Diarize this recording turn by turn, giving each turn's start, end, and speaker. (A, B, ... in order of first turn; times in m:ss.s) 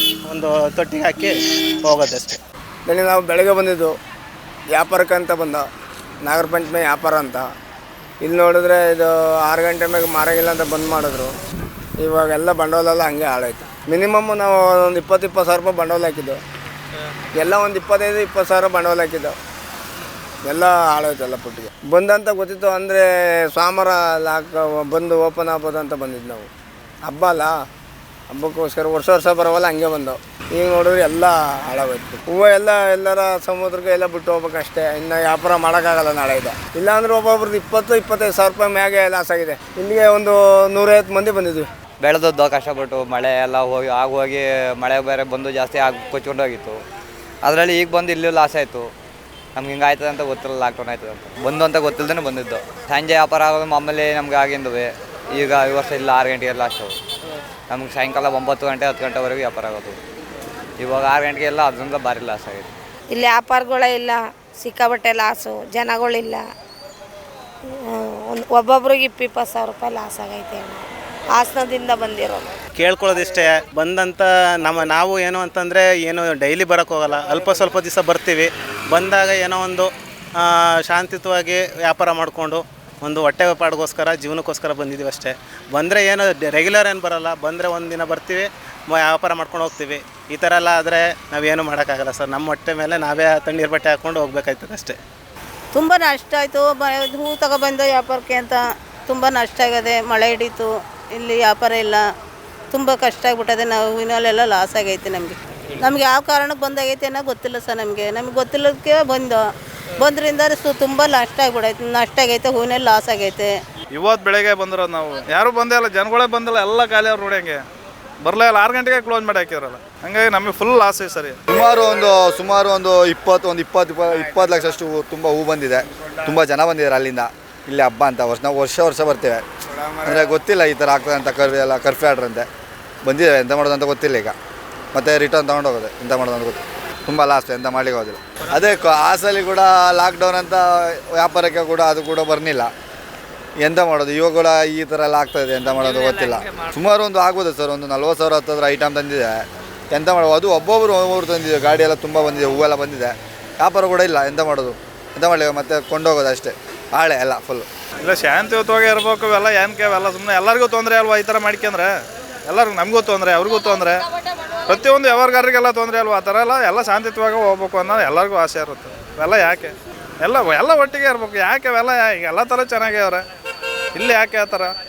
0:00.3-0:01.3 A
0:01.9-0:02.4 A
0:02.8-0:03.9 B
0:04.7-0:05.6 B
0:06.2-0:07.5 B
0:08.2-0:11.3 B
0:12.0-0:16.4 B
0:17.4-0:19.3 B
0:20.4-0:26.5 B
0:27.0-0:27.6 B
0:28.3-0:41.6 B
0:42.0-0:46.8 C
0:47.4-0:48.9 C
0:49.6-0:57.0 C
0:57.7-1:00.0 C
1:00.8-1:02.7 C
1:03.1-1:06.4 D
1:07.8-1:12.5 D
1:12.8-1:19.9 A
1:20.4-1:35.0 A
1:35.7-1:42.0 E
1:42.7-1:49.4 E
1:50.0-1:53.5 E
1:53.9-1:57.6 F
1:58.2-2:01.4 F
2:01.5-2:09.4 G
2:04.2-2:04.4 B
2:06.0-2:06.3 B
2:09.7-2:10.3 B
2:10.0-2:12.4 G
2:13.0-2:14.3 G
2:14.9-2:22.7 G
2:23.6-2:37.7 G
2:38.0-2:41.9 F
2:42.5-2:44.0 F
2:44.6-2:53.2 F
2:54.0-2:54.7 F